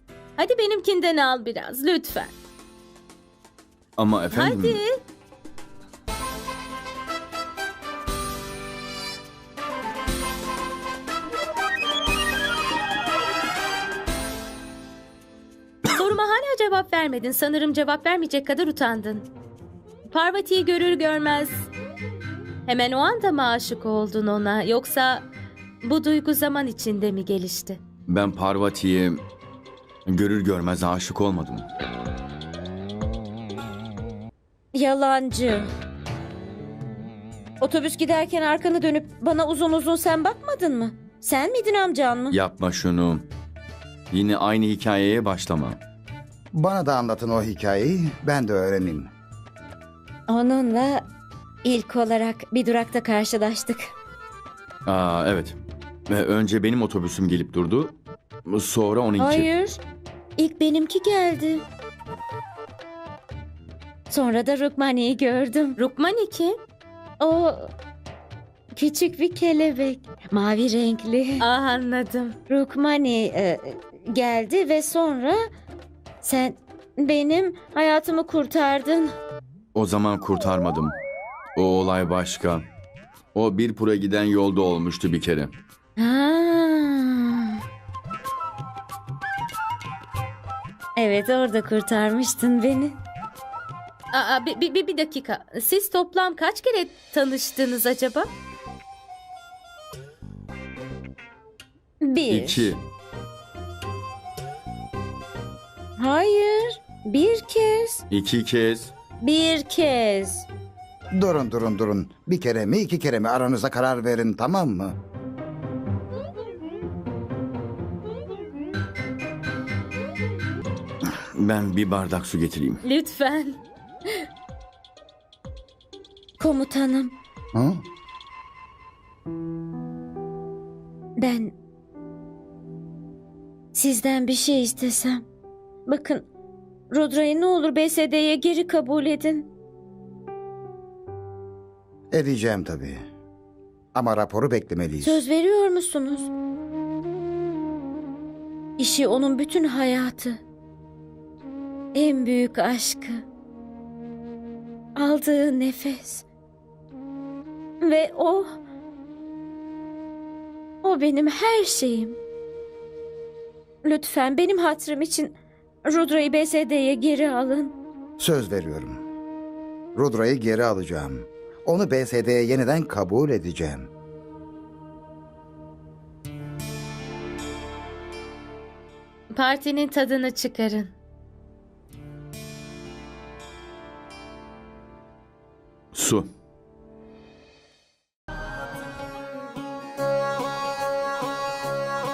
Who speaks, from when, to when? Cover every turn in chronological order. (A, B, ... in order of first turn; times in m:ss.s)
0:00.4-0:02.3 A
0:04.0-0:04.8 B
0:04.3-0:05.0 A
0:15.8-0:19.3 A
0:20.1-0:21.7 A
0:22.7-0:25.3 A
0:25.8-0:27.8 A
0:28.1-0:29.2 B
0:30.1-0:31.7 B
0:34.7-0:35.7 C
0:37.6-0:42.4 C
0:42.3-0:43.2 B
0:44.1-0:45.8 B
0:46.5-0:49.1 D
0:50.3-0:51.0 C
0:51.6-0:53.9 C
0:54.8-0:55.6 B
0:56.1-0:59.5 B
0:59.2-0:59.8 C
1:00.4-1:01.6 C
1:04.1-1:05.8 C
1:05.8-1:06.6 A
1:07.2-1:07.7 C
1:08.7-1:11.4 C
1:11.4-1:12.4 A
1:12.5-1:15.4 C
1:16.2-1:19.2 C
1:19.7-1:21.0 B
1:21.6-1:22.6 B
1:23.3-1:25.5 B
1:26.0-1:27.6 C
1:31.0-1:33.0 C
1:34.1-1:38.3 A
1:42.0-1:42.7 C
1:42.3-1:42.8 B
1:46.0-1:48.0 C
1:48.1-1:48.9 B
1:49.2-1:50.4 C
1:51.1-1:55.0 D
2:01.0-2:02.8 B
2:02.8-2:03.6 A
2:06.4-2:07.2 C
2:07.5-2:07.8 D
2:11.2-2:11.5 C
2:13.7-2:15.2 C
2:15.8-2:16.3 C
2:16.9-2:19.5 C
2:22.1-2:23.0 D
2:23.9-2:25.2 D
2:25.0-2:26.3 C
2:28.8-2:30.4 C
2:31.9-2:33.2 C
2:35.0-2:36.2 C
2:37.8-2:38.6 C
2:40.8-2:42.2 C
2:43.8-2:45.3 C
2:45.8-2:47.7 C
2:48.2-2:49.0 D
2:49.9-2:53.9 D
2:59.3-3:00.9 A
3:05.9-3:06.3 B